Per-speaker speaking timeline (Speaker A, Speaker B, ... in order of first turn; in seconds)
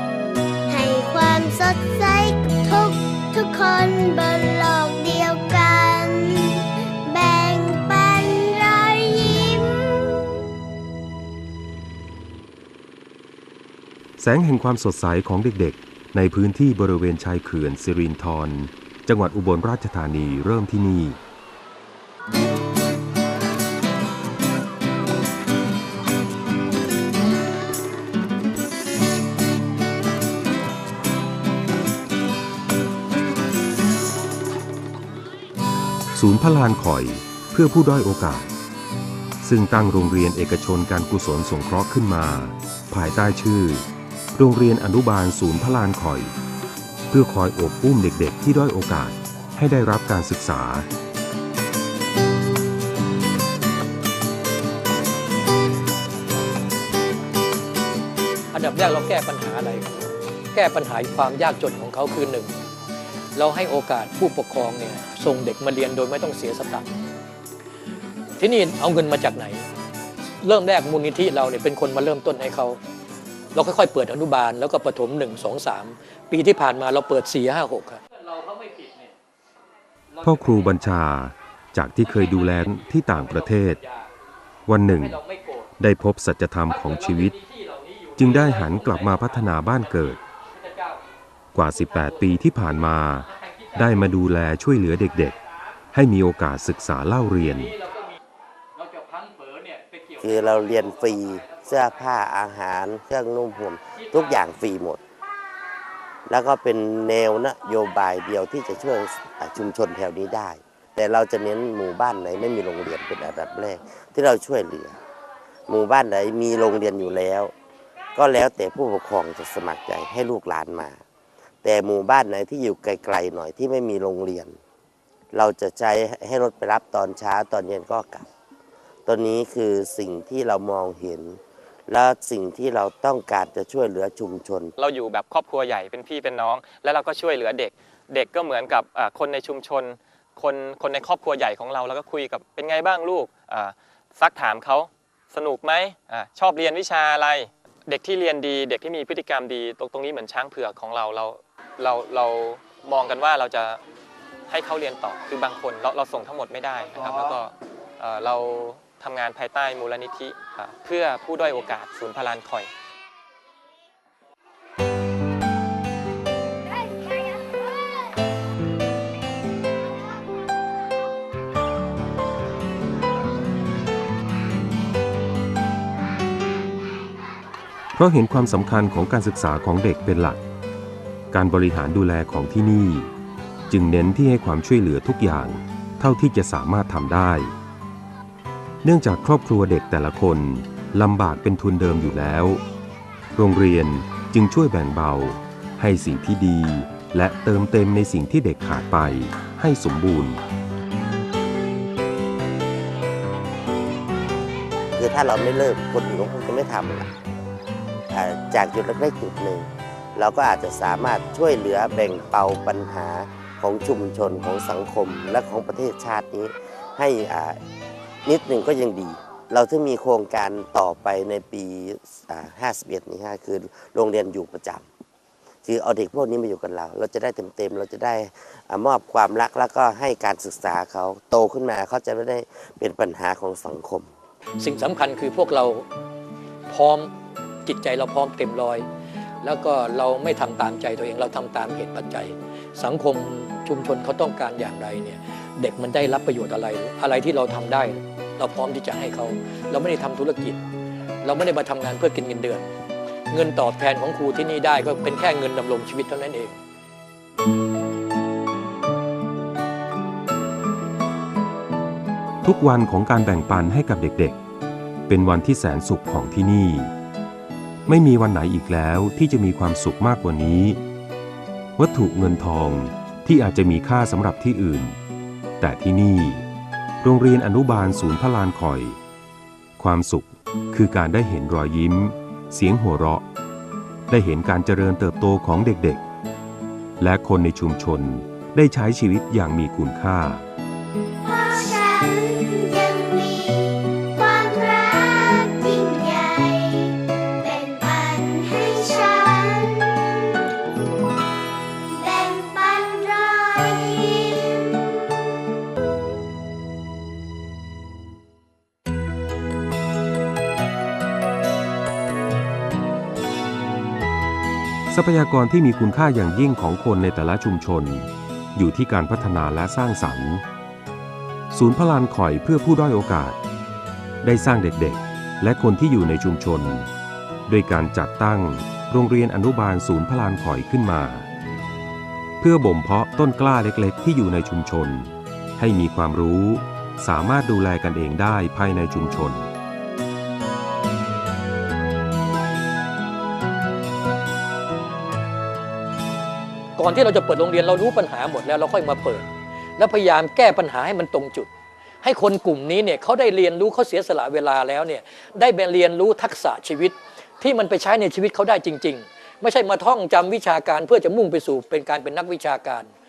Speaker A: 0.7-10.0, 291.2-300.5, 301.8-305.1
Speaker B: 14.2-21.2, 36.1-38.5, 39.4-46.3, 47.1-50.9, 80.2-83.8, 84.7-85.2, 85.8-87.3, 88.2-90.2, 91.5-95.4, 95.9-97.7, 177.9-180.4, 181.3-183.1, 183.7-187.5, 188.8-192.6, 193.3-200.4, 262.4-264.4, 265.1-266.9, 267.9-270.8, 271.8-275.0, 275.6-276.4, 277.0-279.0, 279.8-283.2, 284.1-286.0, 287.0-290.4, 314.9-320.4, 321.5-323.4, 324.2-326.9, 327.5-331.3, 332.4-339.5
Speaker C: 58.5-62.5, 63.3-67.0, 68.4-69.7, 70.4-72.8, 73.5-79.1, 80.2-80.7, 82.1-84.1, 85.0-85.7, 86.7-89.3, 90.6-91.0, 97.8-98.1, 98.8-100.2, 234.6-235.9, 236.7-237.1, 237.6-238.9, 239.4-250.6, 251.2-252.7, 253.3-256.6, 346.8-351.5, 352.0-362.9
Speaker D: 100.2-105.0, 106.3-115.0, 115.7-117.5, 118.2-121.0, 121.6-124.6, 125.3-128.3, 129.1-134.7, 204.9-207.1, 208.1-217.6, 218.2-224.8, 225.6-234.1
Speaker E: 134.8-153.8, 154.5-162.7